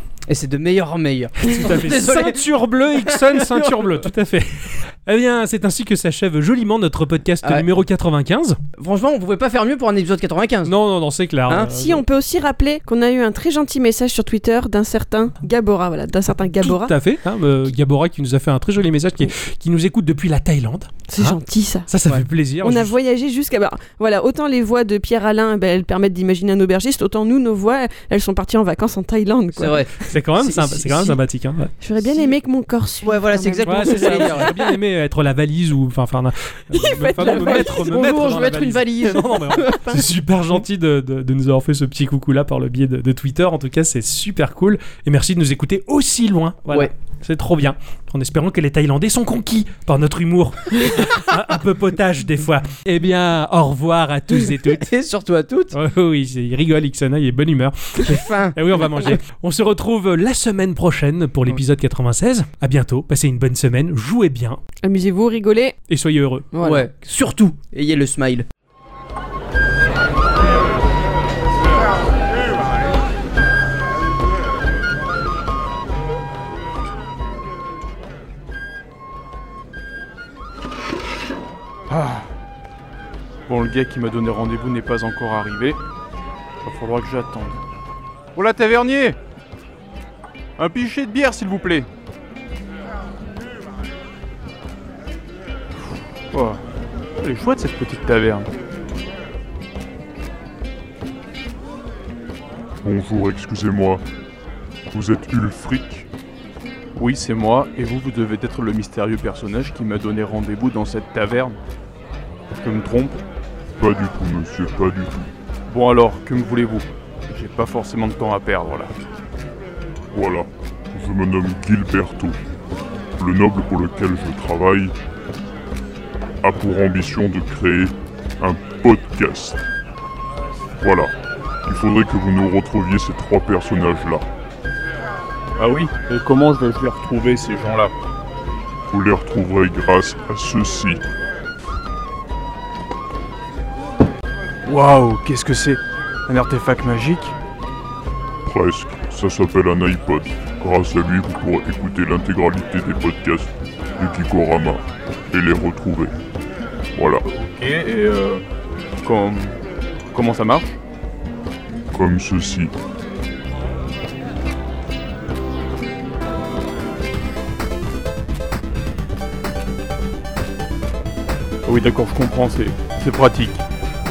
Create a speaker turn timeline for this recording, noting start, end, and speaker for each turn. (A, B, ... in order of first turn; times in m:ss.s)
0:00.3-0:04.0 A
0:01.4-0:08.6 B
0:08.8-0:10.7 A
0:10.7-0:12.0 B
0:11.7-0:16.9 C
0:16.6-0:22.9 B
0:21.1-0:21.9 C
0:22.6-0:29.9 C
0:29.6-0:31.1 A
0:30.1-0:31.7 B
0:31.8-0:34.7 C
0:32.0-0:32.3 A
0:33.0-0:34.5 A
0:33.6-0:54.9 B
0:36.7-0:37.9 C
0:37.2-0:40.0 A
0:39.7-0:40.0 C
0:54.3-0:55.7 A
0:55.7-1:04.6 B
0:58.0-0:59.2 A
1:04.8-1:05.8 C
1:05.9-1:06.5 B
1:06.5-1:06.9 C
1:06.6-1:08.5 A
1:21.9-1:22.2 D
1:23.5-1:25.8 D
1:26.6-1:27.6 D
1:28.4-1:29.2 D
1:30.6-1:31.9 D
1:36.3-1:36.6 D
1:37.2-1:38.5 D
1:42.8-1:44.0 E
1:44.9-1:46.1 E
1:47.0-1:51.6 D
1:52.6-1:53.2 D
1:53.8-1:55.3 E
1:55.7-1:58.9 D
2:00.1-2:02.4 E
2:03.2-2:04.9 E
2:06.4-2:09.6 E
2:10.8-2:11.1 E
2:11.7-2:14.2 E
2:15.6-2:17.9 D
2:18.9-2:21.1 E
2:24.7-2:27.3 D
2:28.4-2:36.1 E
2:37.0-2:37.2 E
2:37.3-2:38.4 D
2:39.0-2:39.6 D
2:40.1-2:40.8 D
2:41.9-2:42.7 E
2:51.7-2:53.6 D